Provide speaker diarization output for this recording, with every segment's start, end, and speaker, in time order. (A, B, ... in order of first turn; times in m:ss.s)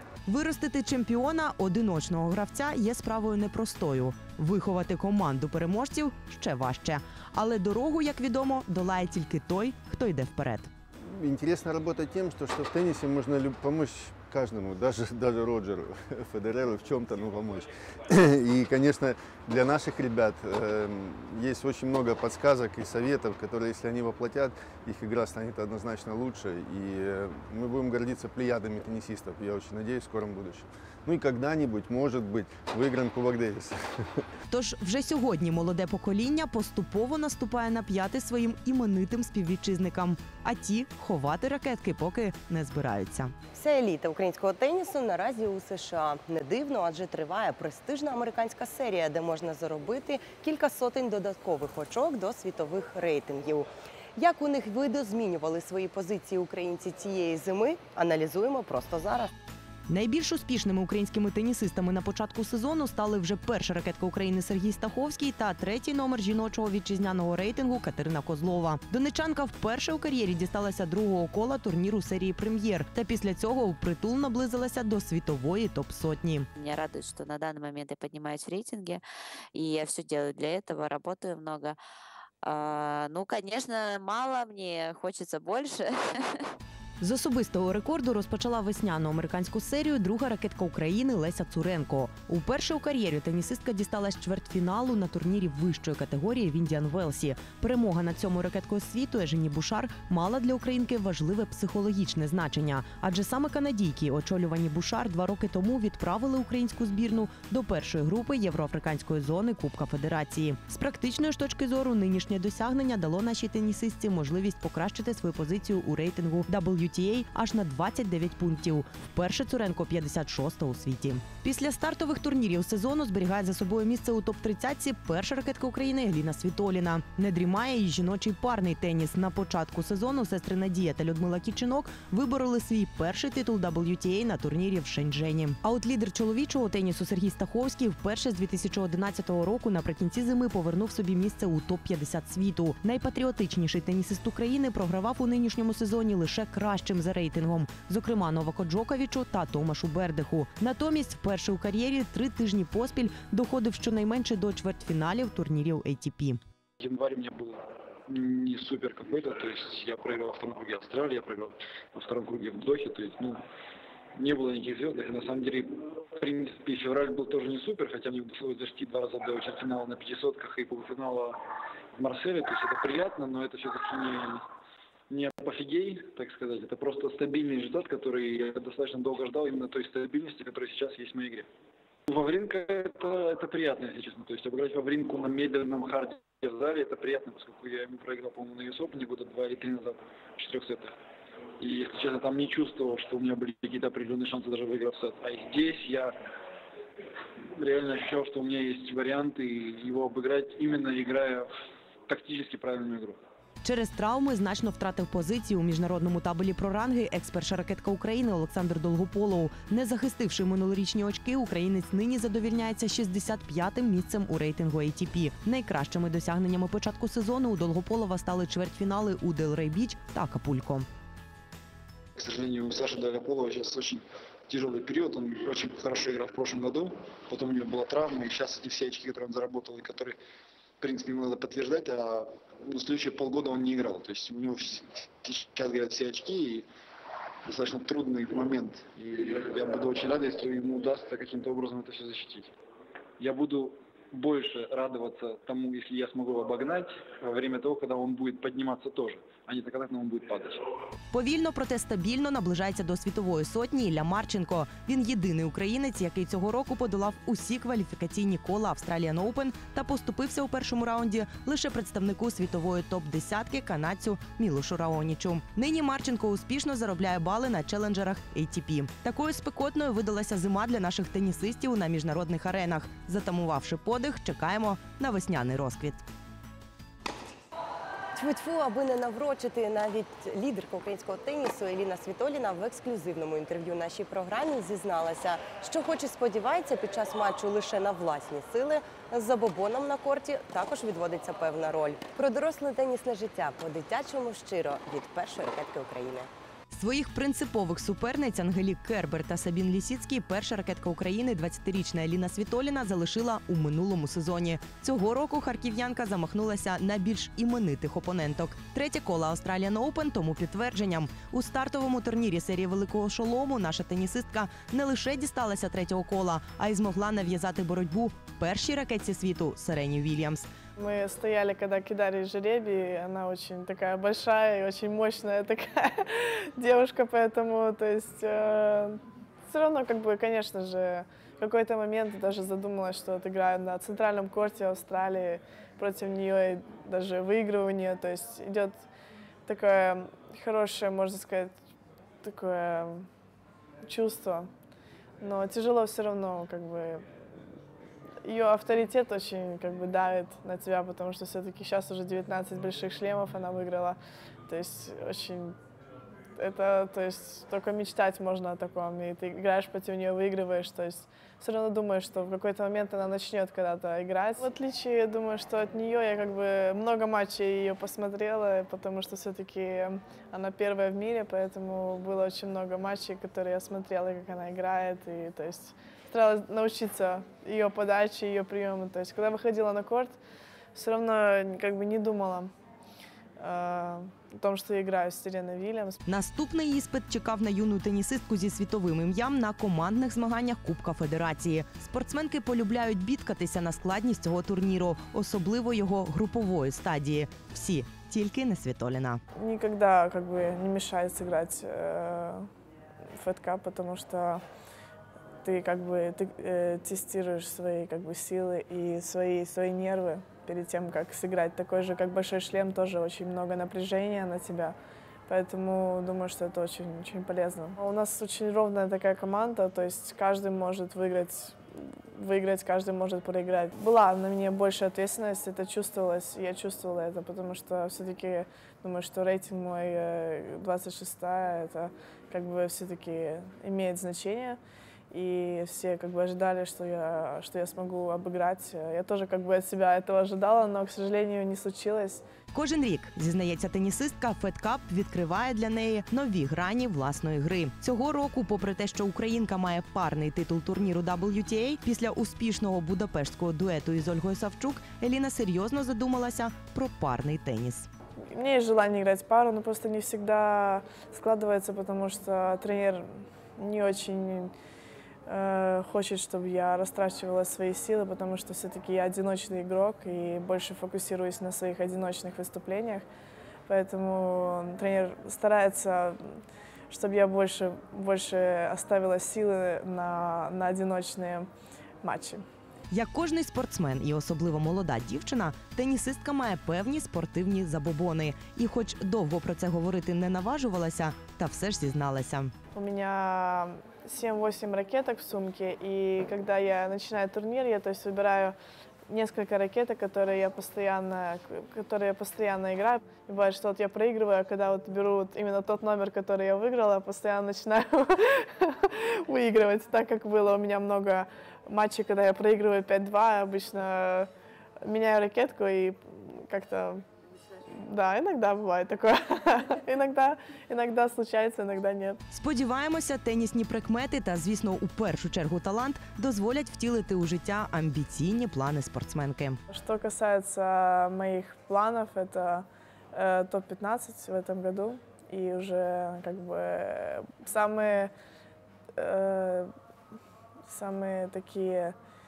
0:00.3-0:10.7 A
0:11.0-0:34.2 B
0:34.5-0:43.3 A
0:43.6-0:59.3 C
0:59.9-1:16.5 A
1:16.6-1:19.0 D
1:19.5-1:21.8 D
1:22.4-1:26.5 D
1:27.0-2:36.4 A
2:36.8-2:43.4 E
2:44.2-2:51.4 E
2:52.0-2:54.4 E
2:55.1-3:01.5 E
3:02.1-3:10.9 E
3:11.6-3:16.2 E
3:17.6-3:21.5 E
3:22.1-3:23.2 E
3:23.6-3:40.9 A
3:42.2-3:50.2 E
3:50.8-3:56.7 E
3:57.4-4:02.5 E
4:03.2-4:10.6 E
4:11.1-4:36.0 A
4:38.2-4:56.2 C
4:56.7-5:20.5 A
5:20.8-5:38.8 F
5:39.5-5:41.5 F
5:42.2-5:43.1 F
5:43.9-5:44.5 F
5:45.2-5:47.1 F
5:48.2-5:55.6 F
5:56.4-6:20.2 F
6:20.7-6:22.5 F
6:23.4-6:26.0 F
6:26.1-6:39.2 A
6:39.4-6:42.5 F
6:43.2-6:44.4 F
6:45.4-6:54.8 F
6:55.3-7:22.2 F
7:22.5-7:37.9 A
7:38.3-7:44.5 F
7:45.3-7:53.1 F
7:53.7-7:56.4 F
7:56.9-8:01.5 F
8:02.0-8:02.4 F
8:02.9-8:12.5 A
8:12.7-8:18.6 F
8:19.1-8:34.3 F
8:34.8-8:37.0 F
8:37.7-8:42.2 F
8:42.3-8:49.6 A
8:49.7-8:58.1 F
8:59.0-8:59.7 F
9:00.7-9:02.0 F